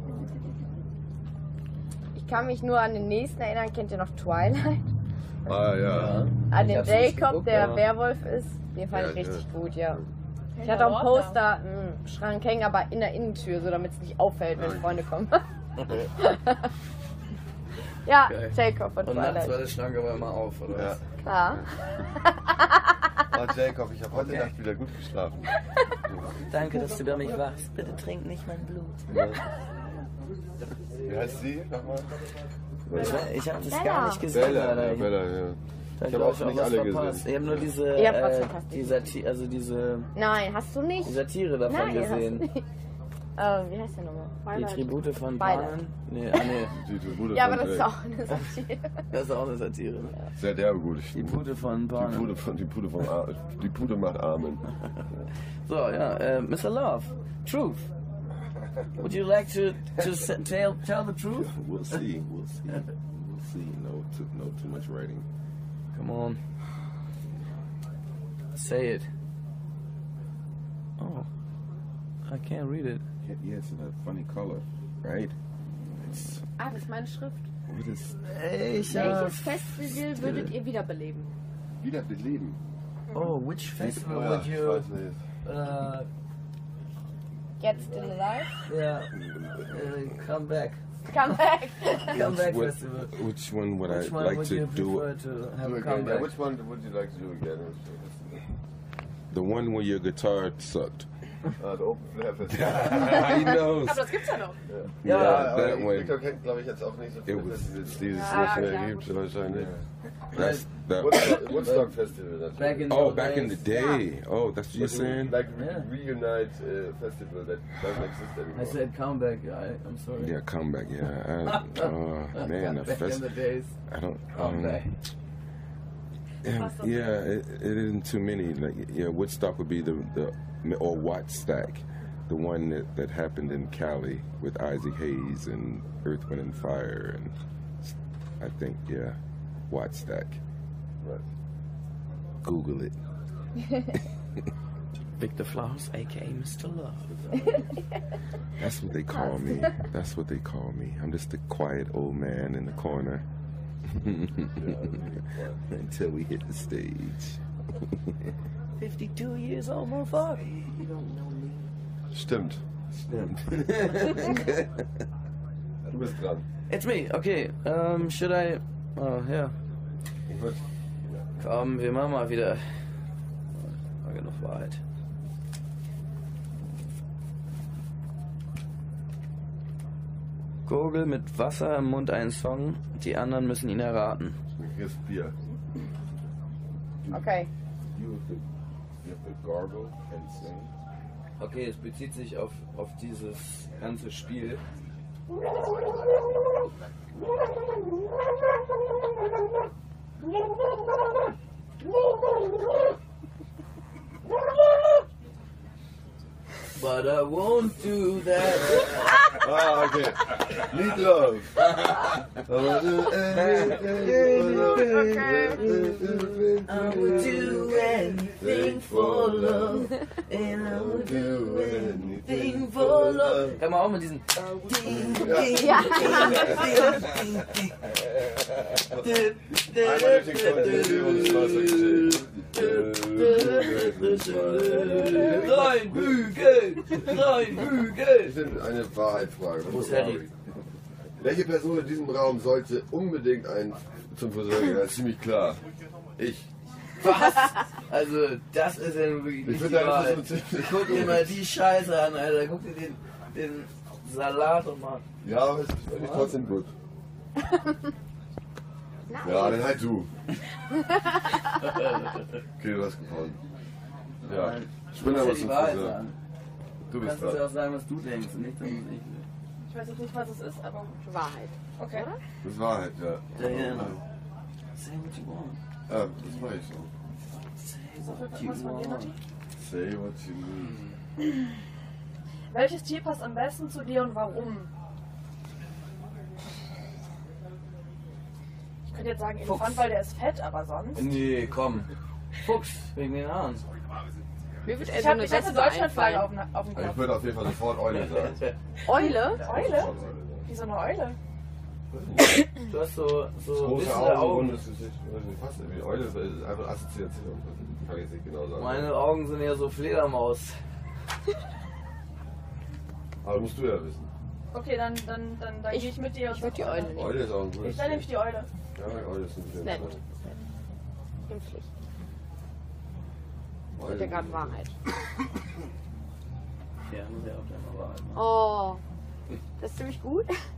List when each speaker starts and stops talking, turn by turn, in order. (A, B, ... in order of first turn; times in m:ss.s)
0:02.1-0:04.9 A
0:05.4-0:06.3 B
0:05.8-0:07.8 C
0:06.5-0:10.0 A
0:08.9-0:10.1 B
0:10.6-0:11.4 D
0:10.6-0:15.4 A
0:14.5-0:15.0 B
0:16.2-0:16.7 A
0:18.0-0:19.6 A
0:18.3-0:21.0 C
0:20.7-0:21.0 B
0:21.2-0:21.6 A
0:22.2-0:22.9 A
0:23.3-0:25.5 B
0:24.1-0:24.5 C
0:26.1-0:26.3 B
0:26.5-0:29.4 C
0:31.0-0:32.1 B
0:32.9-0:33.2 B
0:32.9-0:35.1 C
0:32.9-0:33.3 D
0:33.7-0:34.3 A
0:34.3-0:37.6 B
0:36.0-0:40.1 C
0:37.9-0:39.1 A
0:40.1-0:42.6 A
0:41.0-0:42.4 C
0:43.4-0:45.8 A
0:44.5-0:46.8 C
0:46.7-0:47.9 B
0:47.3-0:49.0 A
0:49.1-0:50.2 C
0:50.3-0:51.4 B
0:51.1-0:52.3 C
0:51.9-0:55.3 B
0:55.6-0:57.9 C
0:59.0-1:02.0 C
1:01.3-1:05.2 E
1:05.9-1:06.4 C
1:08.5-1:09.1 C
1:11.0-1:11.3 C
1:12.2-1:13.0 C
1:13.2-1:15.4 E
1:16.0-1:16.4 E
1:16.6-1:17.4 A
1:17.7-1:18.2 E
1:18.2-1:19.7 C
1:18.8-1:19.2 E
1:18.9-1:21.3 A
1:21.8-1:22.6 E
1:23.1-1:24.9 C
1:23.8-1:25.2 B
1:25.4-1:26.1 C
1:27.6-1:28.5 A
1:28.6-1:30.8 C
1:29.3-1:29.7 E
1:31.1-1:32.2 A
1:32.1-1:33.1 C
1:32.1-1:35.1 E
1:33.8-1:36.3 C
1:35.6-1:38.4 B
1:39.3-1:41.1 E
1:41.6-1:43.4 B
1:42.5-1:44.3 E
1:43.8-1:44.6 D
1:44.7-1:49.7 B
1:45.0-1:45.7 C
1:45.0-1:46.1 E
1:47.3-1:48.0 E
1:48.1-1:49.0 D
1:48.2-1:49.0 A
1:49.4-1:51.6 E
1:50.3-1:50.7 C
1:51.0-1:53.1 B
1:51.3-1:51.9 C
1:52.5-1:53.8 C
1:52.9-1:55.4 E
1:53.8-1:54.0 A
1:54.7-1:58.8 B
1:55.5-1:55.9 C
1:58.5-2:00.4 C
2:00.2-2:03.4 E
2:01.4-2:03.8 C
2:03.9-2:05.0 E
2:04.3-2:04.8 C
2:06.4-2:19.2 E
2:06.5-2:07.2 D
2:19.7-2:20.4 E
2:22.4-2:22.9 E
2:25.2-2:27.5 C
2:28.6-2:33.2 E
2:29.1-2:29.7 A
2:33.9-2:34.8 E
2:34.6-2:35.6 B
2:35.7-2:37.4 E
2:38.8-2:40.6 C
2:40.7-2:41.6 E
2:42.1-2:42.6 B
2:42.9-2:44.6 E
2:45.9-2:46.4 B
2:46.7-2:49.5 C
2:50.3-2:51.2 B
2:51.4-2:52.8 C
2:53.5-2:54.8 C
3:00.6-3:04.4 C
3:04.6-3:05.3 B
3:07.1-3:07.5 A
3:07.9-3:08.4 E
3:09.0-3:10.7 E
3:11.4-3:14.6 C
3:26.7-3:29.3 C
3:29.3-3:31.8 B
3:32.4-3:37.8 B
3:33.4-3:35.9 E
3:34.1-3:35.1 C
3:34.8-3:35.6 A
3:36.6-3:47.9 C
3:38.4-3:43.6 B
3:44.6-3:45.1 E
3:44.8-3:47.0 B
3:45.5-3:46.6 A
3:48.9-3:58.4 C
3:49.7-3:56.1 B
3:58.2-4:00.3 B
3:59.6-4:00.3 C
4:01.2-4:05.6 B
4:06.2-4:06.5 B
4:07.0-4:15.0 C
4:09.4-4:11.4 B
4:15.2-4:16.7 B
4:15.9-4:16.3 C
4:17.4-4:17.9 A
4:19.1-4:19.7 A
4:19.2-4:20.1 B
4:20.7-4:21.4 A
4:21.5-4:22.4 C
4:22.6-4:23.4 B
4:24.2-4:26.2 C
4:24.2-4:26.0 B
4:26.9-4:27.4 B
4:27.0-4:29.3 C
4:29.7-4:31.0 D
4:31.0-4:32.2 A
4:31.8-4:32.1 D
4:32.4-4:34.0 B
4:33.3-4:34.0 C
4:34.8-4:35.6 C
4:35.9-4:36.9 B
4:37.5-4:39.1 C
4:38.1-4:39.2 D
4:39.6-4:40.9 B
4:42.5-4:44.7 D
4:48.9-4:51.2 D
4:49.4-4:49.8 C
4:50.9-4:51.9 C
4:52.4-4:53.6 C
4:54.6-4:56.3 A
4:54.8-4:57.2 D
4:56.7-4:58.4 B
4:57.9-4:58.6 C
4:58.8-4:59.4 A
4:58.8-4:59.9 D
4:59.4-5:00.5 B
5:00.4-5:01.2 D
5:01.9-5:02.4 B
5:02.7-5:04.6 C
5:03.5-5:08.9 B
5:08.6-5:10.6 C
5:13.2-5:14.1 B
5:14.5-5:18.5 D
5:15.7-5:17.3 A
5:16.9-5:18.1 B
5:18.7-5:20.0 B
5:19.6-5:20.4 A
5:21.3-5:21.7 A
5:23.8-5:24.6 B
5:23.8-5:24.7 A
5:26.8-5:28.3 C
5:28.1-5:28.8 A
5:29.6-5:30.3 A